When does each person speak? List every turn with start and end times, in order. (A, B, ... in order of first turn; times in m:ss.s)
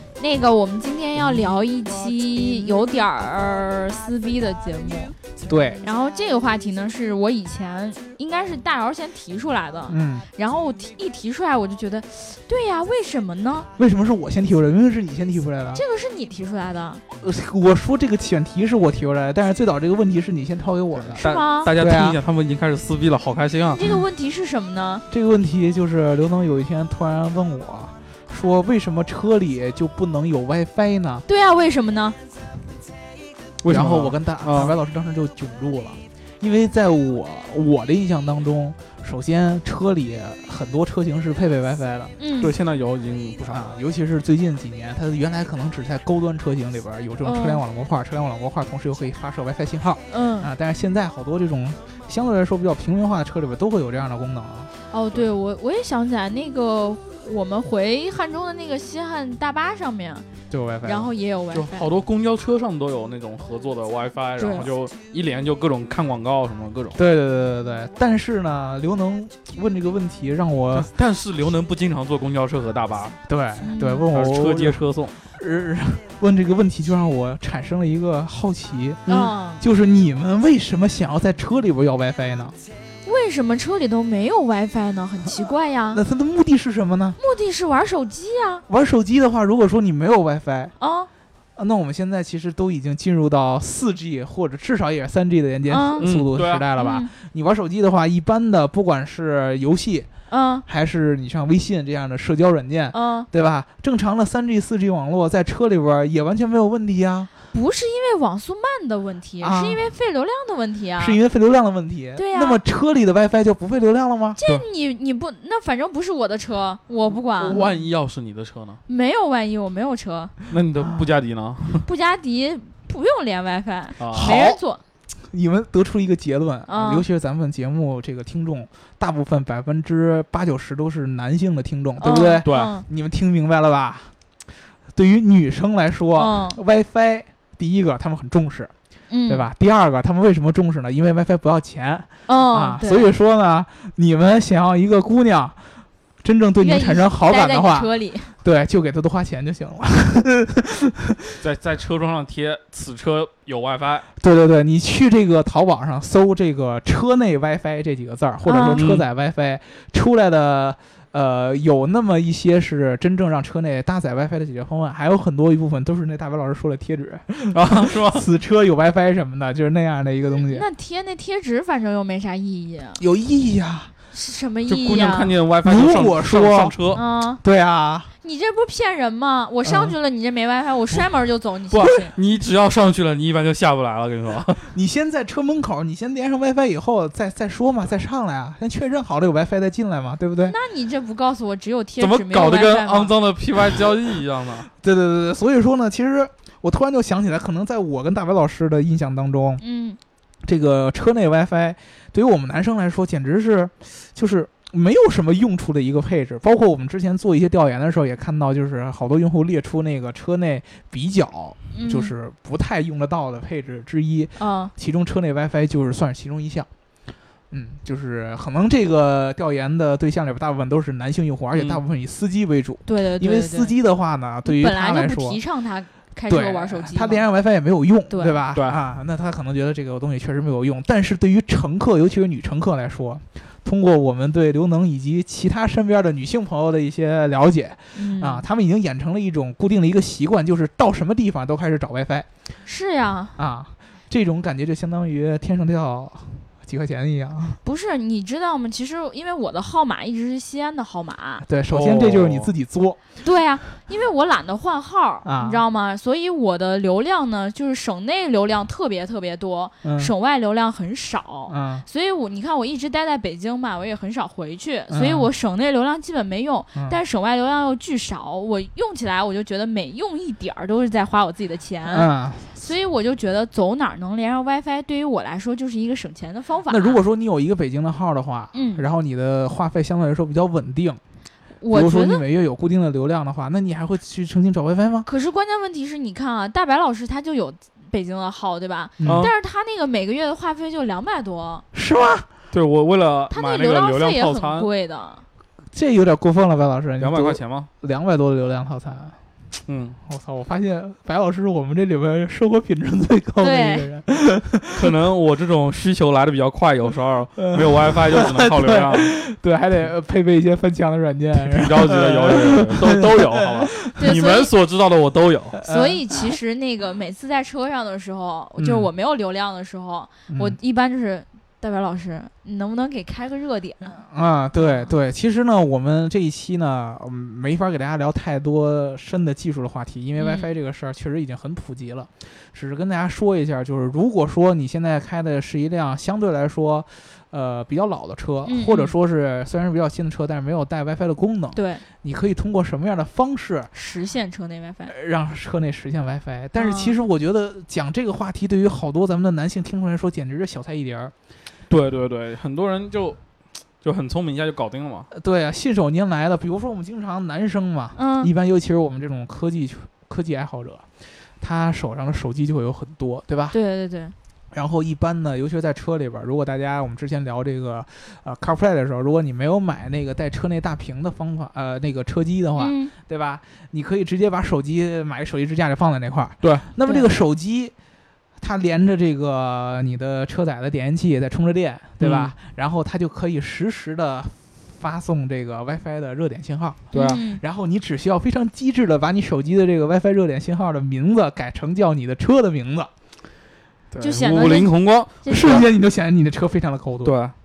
0:00.2-0:05.1 A
0:05.5-0:05.8 B
0:05.8-0:13.7 A
0:09.9-0:10.3 B
0:13.8-0:15.8 B
0:15.7-0:17.0 A
0:17.2-0:22.2 B
0:21.0-0:23.8 C
0:21.2-0:21.7 A
0:23.7-0:25.0 A
0:25.1-0:31.2 B
0:31.3-0:32.2 A
0:33.6-0:34.8 C
0:33.7-0:42.1 B
0:42.2-0:42.5 A
0:42.4-0:43.6 C
0:43.5-0:54.7 B
0:47.2-0:47.6 A
0:50.1-0:50.5 A
0:54.9-1:00.3 A
1:00.5-1:01.1 B
1:00.8-1:01.9 A
1:01.5-1:07.0 C
1:04.4-1:04.7 A
1:07.0-1:10.9 B
1:10.7-1:13.2 C
1:13.3-1:22.6 B
1:13.6-1:14.1 A
1:14.1-1:15.2 C
1:19.1-1:19.3 C
1:19.1-1:19.6 A
1:23.0-1:26.0 A
1:25.9-1:27.2 B
1:27.2-1:28.6 A
1:28.7-1:30.7 B
1:30.8-1:31.1 A
1:31.6-1:40.1 B
1:35.7-1:36.0 A
1:36.0-1:36.6 C
1:36.8-1:37.1 A
1:40.3-1:40.6 A
1:40.7-1:47.3 B
1:42.9-1:43.3 A
1:47.5-1:51.2 A
1:49.4-1:49.9 B
1:51.0-1:54.4 B
1:52.2-1:52.6 A
1:54.3-1:57.7 A
1:57.4-1:58.8 C
1:58.9-2:00.3 A
2:00.5-2:01.8 C
2:01.8-2:04.8 A
2:04.0-2:04.5 C
2:04.1-2:04.6 B
2:05.3-2:14.1 B
2:06.7-2:07.0 A
2:12.0-2:12.8 A
2:12.4-2:12.7 C
2:14.9-2:18.7 B
2:16.2-2:16.6 A
2:19.1-2:19.5 A
2:19.3-2:25.7 B
2:22.3-2:23.1 A
2:26.2-2:31.4 B
2:26.6-2:28.3 A
2:31.4-2:34.1 C
2:34.2-2:50.7 B
2:38.4-2:38.8 A
2:38.7-2:39.0 C
2:47.5-2:48.3 C
2:50.4-2:53.0 A
2:53.0-2:53.9 B
2:54.1-2:55.3 A
2:54.7-2:57.0 C
2:55.6-2:58.1 B
2:56.9-2:57.4 A
2:58.2-3:02.1 A
2:59.6-2:59.9 B
3:01.7-3:04.7 C
3:04.6-3:10.6 B
3:10.4-3:13.1 A
3:12.0-3:14.7 C
3:14.8-3:19.6 B
3:19.6-3:20.0 A
3:20.4-3:36.7 B
3:31.7-3:32.1 A
3:34.4-3:34.7 A
3:37.5-3:45.4 B
3:41.5-3:41.8 C
3:42.9-3:43.7 A
3:44.4-3:47.2 A
3:46.3-4:02.3 B
3:48.1-3:48.4 A
3:48.5-3:48.8 C
3:57.9-3:58.4 A
4:02.6-4:03.4 A
4:03.4-4:07.6 B
4:07.6-4:11.4 A
4:11.4-4:13.0 B
4:11.7-4:12.5 C
4:13.2-4:37.0 A
4:15.2-4:15.6 B
4:19.8-4:20.1 B
4:21.5-4:21.8 B
4:24.9-4:25.3 B
4:31.9-4:32.7 B
4:36.7-4:41.0 B
4:38.5-4:38.8 A
4:41.6-4:42.2 A
4:41.7-4:45.1 B
4:45.0-4:51.6 A
4:49.0-4:49.3 B
4:49.0-4:49.3 C
4:51.7-4:52.3 B
4:52.5-4:54.7 C
4:53.3-4:55.2 A
4:55.7-4:59.2 B
4:57.0-4:57.7 C
4:59.7-5:00.0 C
5:00.0-5:04.9 B
5:03.4-5:03.9 A
5:04.7-5:09.2 C
5:07.4-5:14.0 B
5:11.4-5:15.6 C
5:14.0-5:14.5 A
5:15.5-5:16.3 B
5:15.6-5:24.0 A
5:18.6-5:18.9 B
5:20.3-5:20.6 B
5:23.8-5:43.7 B
5:24.6-5:24.8 A
5:30.2-5:30.5 A
5:38.4-5:38.9 A
5:41.5-5:41.8 A
5:43.7-5:44.9 A
5:44.9-5:51.1 B
5:46.5-5:46.9 A
5:51.7-5:53.2 C
5:53.8-5:55.1 C
5:55.1-6:00.8 B
5:57.9-5:58.3 A
6:01.4-6:03.6 B
6:03.5-6:04.1 A
6:04.5-6:17.7 B
6:12.6-6:12.9 A
6:16.4-6:16.7 C
6:16.8-6:17.2 A
6:18.4-6:32.9 B
6:22.0-6:22.3 C
6:26.9-6:27.4 A
6:26.9-6:27.2 C
6:33.9-6:35.7 C
6:34.0-6:35.7 A
6:35.3-6:37.2 B
6:37.0-6:37.3 C